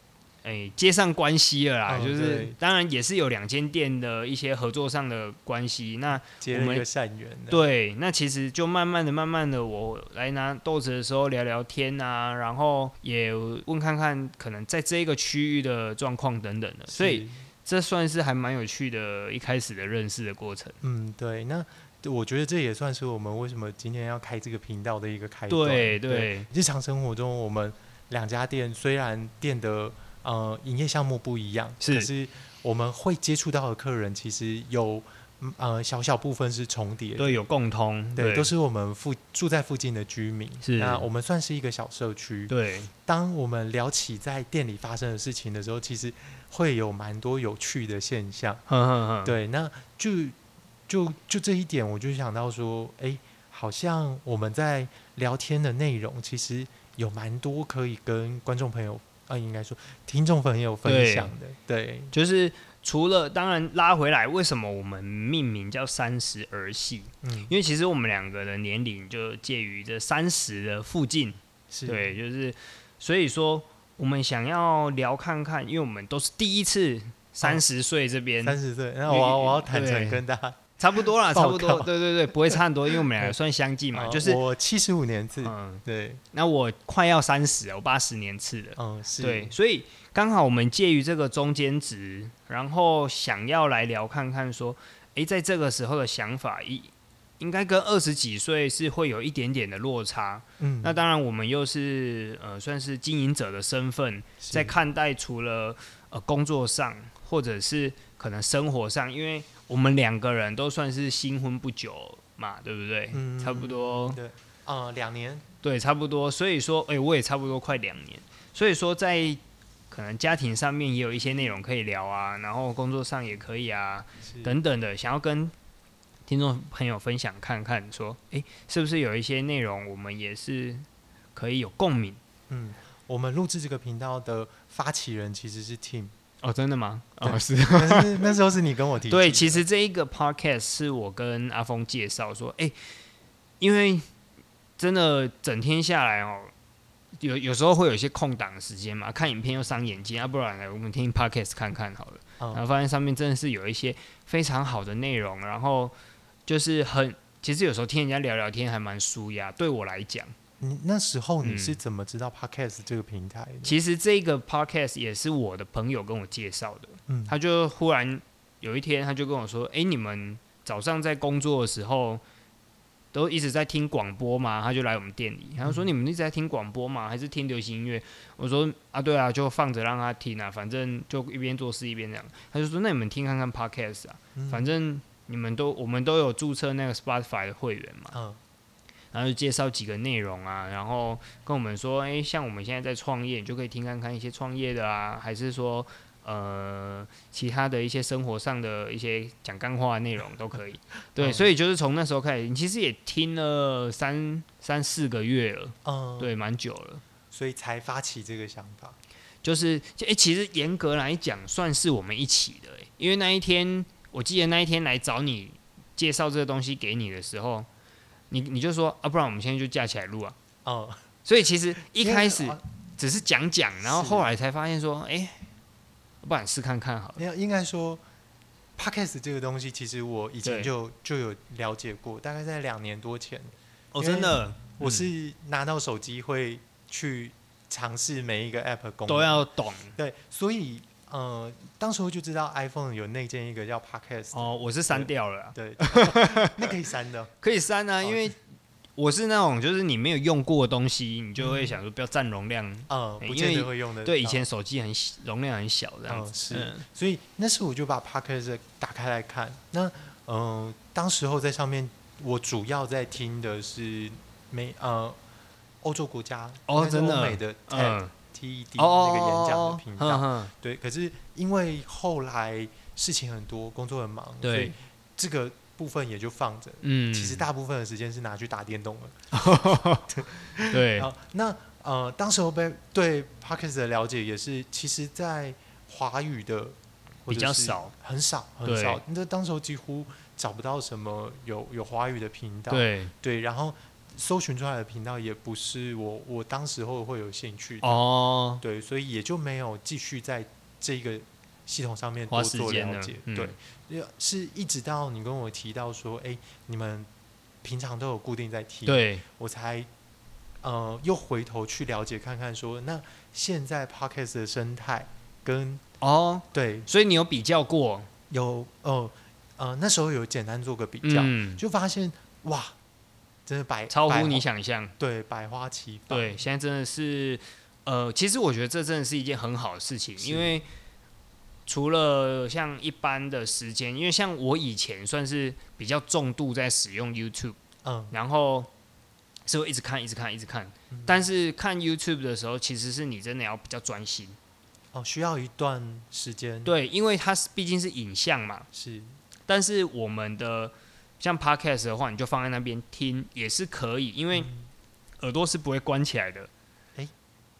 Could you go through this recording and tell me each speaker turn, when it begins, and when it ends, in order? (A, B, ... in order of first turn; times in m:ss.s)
0:00.4-0:06.8 A
0:01.9-0:02.6 B
0:06.2-0:07.7 B
0:07.5-0:20.8 A
0:16.9-0:17.4 B
0:20.8-0:37.4 B
0:25.5-0:26.5 A
0:31.8-0:32.1 A
0:37.2-0:38.5 A
0:38.2-0:42.5 B
0:40.6-0:41.0 A
0:42.5-0:42.9 A
0:43.0-0:48.6 B
0:48.7-0:49.3 A
0:49.2-0:50.4 B
0:50.9-1:02.1 B
1:00.8-1:01.3 A
1:02.1-1:20.2 A
1:07.2-1:07.5 B
1:11.7-1:12.1 B
1:18.4-1:21.9 B
1:20.8-1:24.4 A
1:22.5-1:23.3 B
1:23.9-1:26.2 B
1:25.4-1:54.2 A
1:28.8-1:29.5 B
1:40.6-1:41.0 B
1:44.4-1:44.8 B
1:53.1-1:55.4 B
1:55.6-1:59.4 A
1:59.9-2:05.5 A
2:04.2-2:04.6 B
2:06.3-2:12.2 A
2:12.5-2:16.1 B
2:16.4-2:18.4 A
2:17.2-2:19.6 B
2:19.1-2:22.8 A
2:23.6-2:24.0 A
2:24.8-2:26.5 A
2:27.2-2:35.9 A
2:36.4-2:40.3 A
2:40.6-2:43.7 B
2:41.4-2:41.8 A
2:43.6-2:52.2 A
2:47.1-2:47.3 B
2:53.1-3:08.2 A
3:04.3-3:04.7 B
3:08.1-3:08.4 B
3:09.1-3:27.0 A
3:21.2-3:21.5 B
3:25.8-3:26.3 B
3:27.3-3:29.0 B
3:29.4-3:37.7 A
3:38.3-3:40.4 A
3:40.6-3:41.0 B
3:41.2-3:45.5 A
3:41.8-3:42.6 B
3:43.8-3:44.3 B
3:46.2-3:47.2 A
3:47.2-3:48.0 B
3:48.8-4:07.3 B
3:50.4-3:50.7 A
3:53.9-3:55.1 A
3:59.1-4:00.0 A
4:04.3-4:06.8 A
4:07.4-4:08.4 A
4:09.0-4:16.8 A
4:11.4-4:11.8 B
4:12.9-4:14.4 B
4:16.1-4:25.2 B
4:25.8-4:58.0 B
4:26.7-4:28.1 A
4:28.8-4:30.5 A
4:34.4-4:34.7 A
4:36.8-4:37.4 A
4:39.3-4:41.1 A
4:47.3-4:47.9 A
4:48.6-4:49.0 A
4:52.7-4:53.1 A
4:57.8-4:58.6 A
4:58.6-5:07.1 B
5:02.3-5:03.6 A
5:07.6-5:09.9 B
5:08.8-5:09.2 A
5:10.6-5:15.8 B
5:16.0-5:18.1 A
5:16.5-5:16.9 B
5:18.3-5:22.7 B
5:21.0-5:21.6 A
5:23.4-5:24.4 B
5:23.9-5:24.9 A
5:25.0-5:26.4 B
5:26.1-5:30.7 A
5:30.2-5:30.5 B
5:31.6-5:37.6 A
5:37.8-5:38.1 B
5:38.1-5:38.7 A
5:39.4-5:44.4 A
5:40.9-5:41.2 B
5:44.9-5:46.7 B
5:46.6-5:48.7 A
5:48.7-5:49.2 B
5:49.5-5:54.5 A
5:54.3-5:54.7 B
5:55.2-5:56.5 A